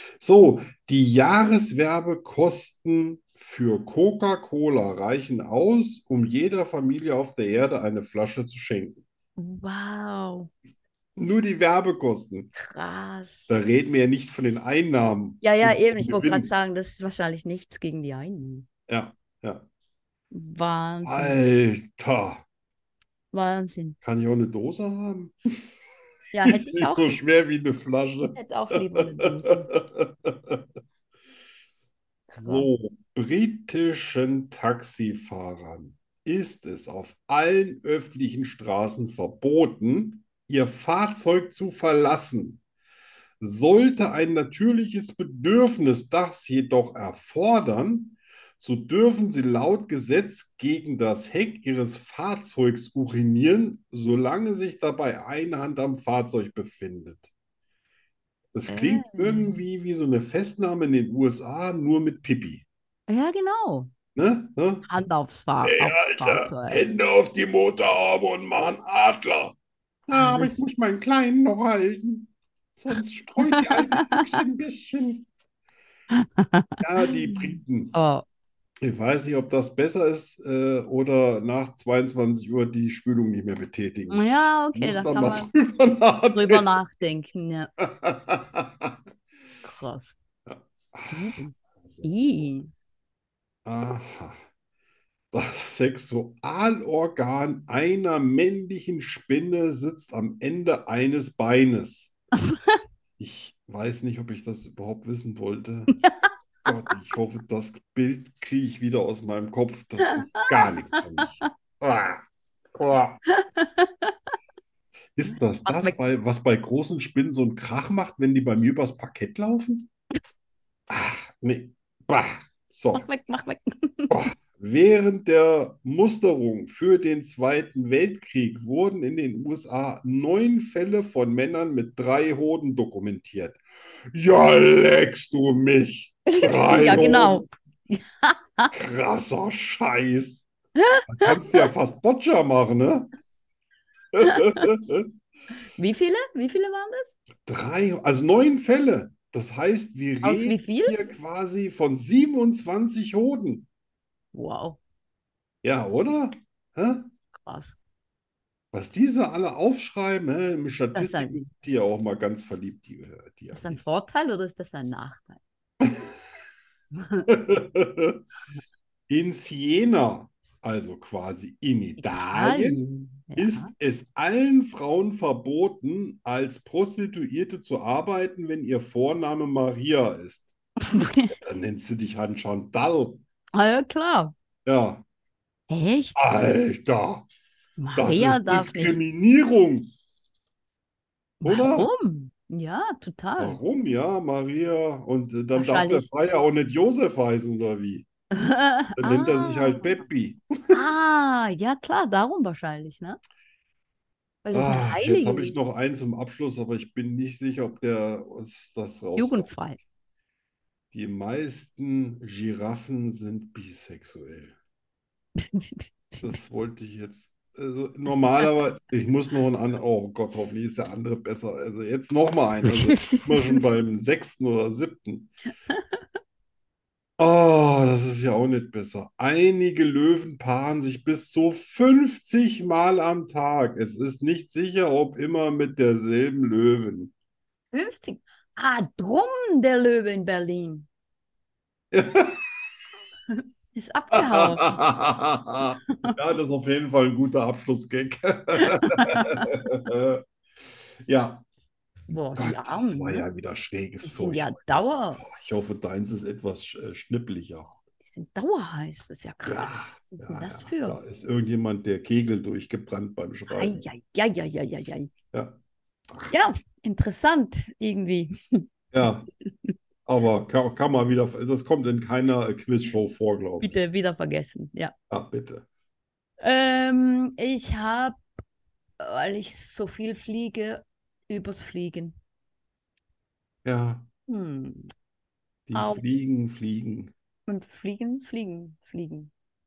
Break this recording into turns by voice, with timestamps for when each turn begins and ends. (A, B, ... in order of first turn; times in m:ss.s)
0:00.2-0:09.0 A
0:09.4-0:10.5 B
0:11.2-0:12.5 A
0:12.6-0:13.7 B
0:13.5-0:16.5 A
0:15.4-0:18.7 B
0:18.9-0:19.6 A
0:20.3-0:21.4 B
0:21.0-0:22.4 A
0:23.3-0:24.0 B
0:24.0-0:25.6 A
0:26.3-0:27.2 B
0:26.4-0:30.6 A
0:28.3-0:29.7 B
0:32.2-0:32.8 B
0:32.4-0:42.6 A
0:43.4-0:57.3 A
0:58.5-1:02.6 A
0:58.7-0:59.6 B
1:03.1-1:03.9 B
1:04.1-1:04.9 A
1:04.8-1:06.8 B
1:05.6-1:09.6 A
1:10.1-1:15.2 A
1:10.1-1:10.6 B
1:13.4-1:14.2 B
1:16.1-1:18.2 B
1:16.8-1:17.9 A
1:18.8-1:26.7 A
1:24.1-1:25.5 B
1:26.3-1:27.7 B
1:27.8-1:28.9 A
1:29.6-1:30.2 B
1:30.4-1:32.1 A
1:31.1-1:32.7 B
1:33.6-1:34.4 A
1:35.3-1:42.1 A
1:42.5-1:42.8 B
1:43.2-1:46.0 A
1:46.6-1:52.2 A
1:52.7-1:53.2 A
1:53.3-1:54.1 B
1:55.2-1:59.9 A
1:55.3-1:56.0 B
2:00.9-2:03.1 A
2:02.9-2:04.2 B
2:04.1-2:13.6 A
2:14.1-2:17.4 A
2:16.3-2:18.7 B
2:18.7-2:20.5 A
2:20.8-2:21.7 B
2:21.1-2:23.1 A
2:24.1-2:25.1 A
2:24.2-2:24.6 B
2:25.8-2:27.2 B
2:27.4-2:33.7 A
2:30.2-2:31.0 B
2:34.3-2:34.8 B
2:35.6-2:37.1 A
2:37.3-2:37.8 B
2:38.7-2:43.9 A
2:40.9-2:41.4 B
2:43.5-2:45.4 B
2:45.8-2:46.1 A
2:46.9-2:47.3 B
2:47.3-2:48.2 A
2:49.1-2:52.8 A
2:52.0-2:53.7 B
2:53.4-3:00.5 A
3:00.8-3:01.4 B
3:01.4-3:03.2 A
3:03.5-3:04.3 B
3:04.6-3:05.0 A
3:05.7-3:06.2 B
3:06.2-3:07.3 A
3:07.8-3:09.0 B
3:08.0-3:09.9 A
3:11.4-3:13.6 B
3:11.4-3:11.9 A
3:13.4-3:18.1 A
3:15.5-3:16.1 B
3:18.3-3:20.0 B
3:19.0-3:20.8 A
3:20.7-3:23.2 B
3:24.4-3:25.6 B
3:24.5-3:29.8 A
3:29.2-3:29.8 B
3:30.9-3:34.5 A
3:35.4-3:36.2 B
3:36.2-3:45.3 A
3:42.6-3:43.7 B
3:47.2-3:57.1 A
3:57.7-4:00.9 B
4:01.9-4:02.4 A
4:03.3-4:04.8 B
4:04.1-4:10.2 A
4:05.9-4:06.1 B
4:08.6-4:09.5 B
4:11.0-4:11.4 A
4:12.1-4:13.2 B
4:12.3-4:17.8 A
4:14.0-4:15.2 B
4:18.0-4:21.0 B
4:19.4-4:23.9 A
4:23.5-4:25.1 B
4:26.3-4:28.6 B
4:28.9-4:29.3 A
4:30.0-4:33.8 A
4:33.6-4:34.9 B
4:35.1-4:35.7 A
4:36.4-4:38.2 B
4:39.0-4:42.2 B
4:43.6-4:44.0 A
4:44.3-4:44.9 B
4:45.7-4:47.1 A
4:45.7-4:46.3 B
4:47.5-4:49.3 B